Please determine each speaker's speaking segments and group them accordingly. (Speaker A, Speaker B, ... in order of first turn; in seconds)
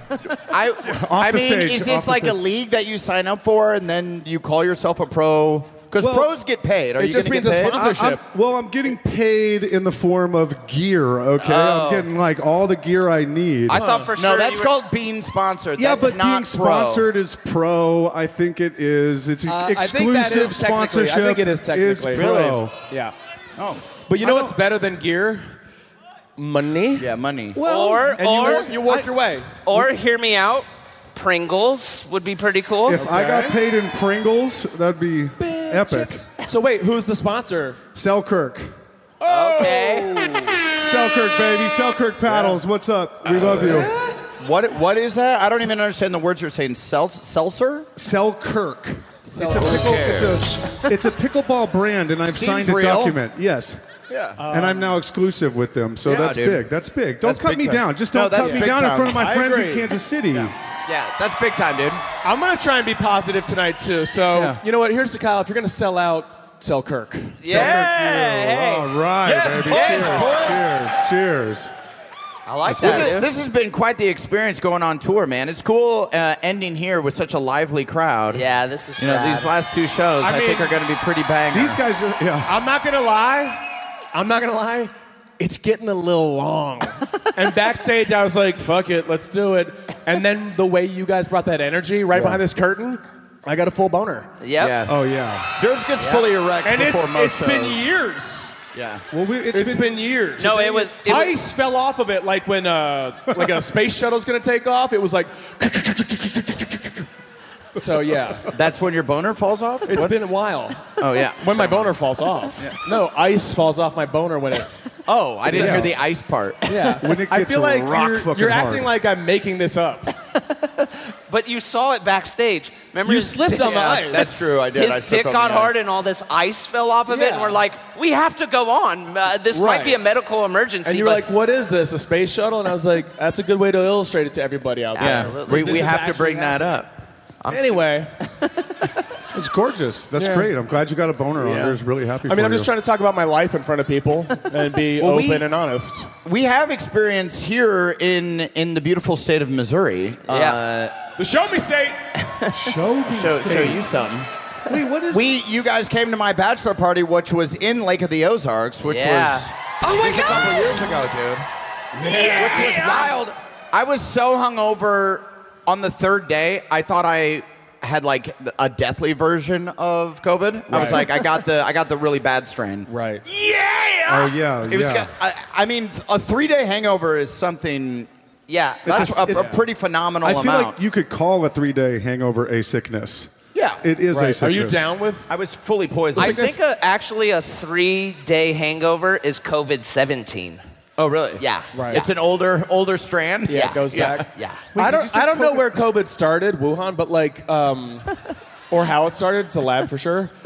Speaker A: 0.5-7.8, 14.2-17.1, 23.6-23.9, 27.0-27.6, 44.4-47.9, 49.7-50.2, 52.3-53.2, 54.1-54.4, 56.0-56.7, 57.2-59.3, 60.3-62.0, 69.4-70.7, 72.8-78.5, 79.0-81.8, 94.6-95.0, 95.6-97.8, 98.7-99.0, 108.5-110.2, 111.0-111.9, 115.1-116.8, 123.7-125.8, 135.0-136.9, 145.0-145.4, 146.2-151.0, 153.1-154.3, 155.1-161.5, 162.1-178.1, 178.8-180.8, 183.6-183.8, 185.3-186.5, 191.0-194.2
Speaker B: 0.8-2.4, 6.0-6.3, 7.6-13.8, 15.8-22.8, 24.2-24.6, 27.6-29.1, 32.9-36.3, 38.0-38.7, 40.8-43.9, 48.0-53.9, 54.5-60.5, 67.5-71.7, 72.7-73.2, 81.5-82.5, 94.9-95.5, 99.1-100.6, 115.5-116.0, 117.0-118.9, 139.3-142.7, 152.5-153.9, 154.7-155.3, 170.7-171.0, 174.1-175.1, 178.8-179.6, 180.2-184.8, 194.8-195.8
Speaker C: 7.0-8.2, 13.7-14.1, 19.5-23.1, 24.1-25.5, 26.4-27.1, 27.9-29.9, 32.9-33.6, 35.4-37.8, 39.2-40.6, 42.2-42.6, 49.2-50.2, 54.4-55.0, 58.3-60.0, 62.2-67.6, 80.2-80.7, 82.5-83.6, 84.1-94.3, 96.6-98.6, 99.5-106.9, 107.8-108.5, 109.9-114.7, 115.5-115.9, 116.7-120.1, 123.0-124.4, 127.1-127.6, 129.5-130.0, 130.8-136.7, 137.5-138.1, 140.2-140.5, 141.4-146.1, 151.2-152.0, 162.1-162.7, 170.7-171.1, 172.9-173.2, 179.3-179.6, 184.1-185.3, 186.2-186.5, 191.7-192.0, 193.5-198.1, 198.7-200.3
Speaker D: 11.4-12.1, 13.7-14.7, 27.6-28.7, 29.6-33.0, 39.3-40.1, 67.4-68.9, 69.7-70.1, 72.5-73.3, 78.3-79.5, 94.4-94.8, 96.0-96.2, 100.4-101.4, 120.5-131.2, 134.9-136.0, 137.4-137.9, 150.3-150.6, 158.8-160.4, 162.3-163.1, 178.5-179.3, 186.2-190.6, 191.4-192.1, 193.5-194.7